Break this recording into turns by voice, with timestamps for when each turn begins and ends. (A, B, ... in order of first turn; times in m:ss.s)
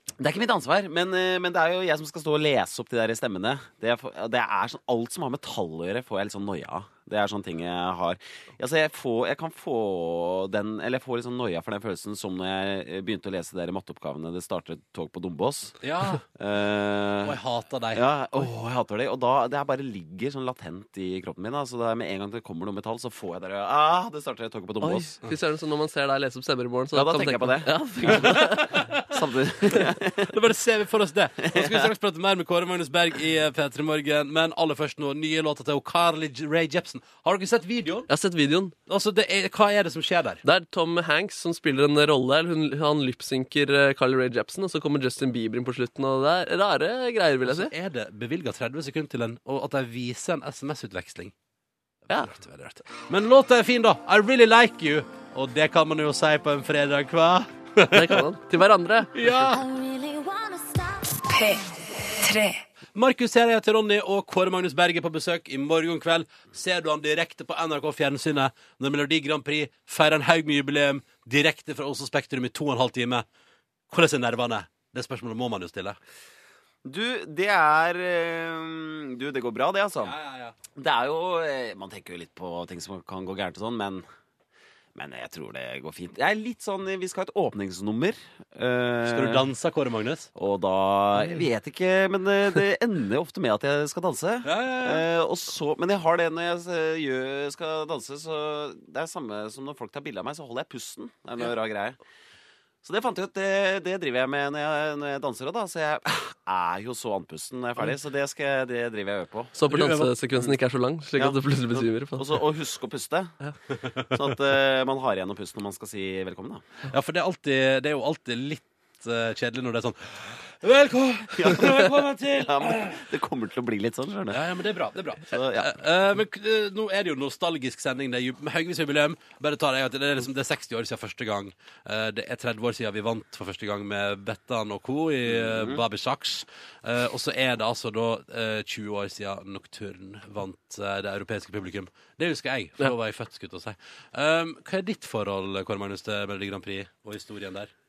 0:00.2-0:15.8 A
0:15.8-0:16.2 B
0:16.4-0:17.4 A
0:17.2-0:18.0 B
0:17.9-0:25.2 A
0:24.8-0:28.8 C
0:26.9-0:28.5 A
0:28.0-0:38.1 B
0:29.0-0:30.4 A
0:31.4-0:31.9 A
0:38.1-0:38.7 C
0:38.9-0:40.4 B
0:40.4-0:47.7 C
0:47.4-0:51.3 B
0:52.1-0:58.3 B
0:57.9-0:59.4 C
0:59.1-0:59.6 B
0:59.6-1:02.6 D
1:02.9-1:13.3 B
1:13.9-1:16.0 B
1:16.8-1:20.2 A
1:20.0-1:20.6 B
1:20.8-1:24.0 A
1:25.0-1:29.5 A
1:29.0-1:30.3 B
1:30.4-1:42.0 A
1:34.4-1:35.1 B
1:42.8-1:49.6 A
1:49.6-1:52.4 C
1:49.7-1:50.2 B
1:51.2-1:53.4 A
1:53.8-1:54.2 B
1:54.1-1:56.6 A
1:56.9-2:03.0 B
2:01.3-2:04.4 A
2:04.3-2:27.7 B
2:05.3-2:05.8 A
2:15.3-2:15.8 A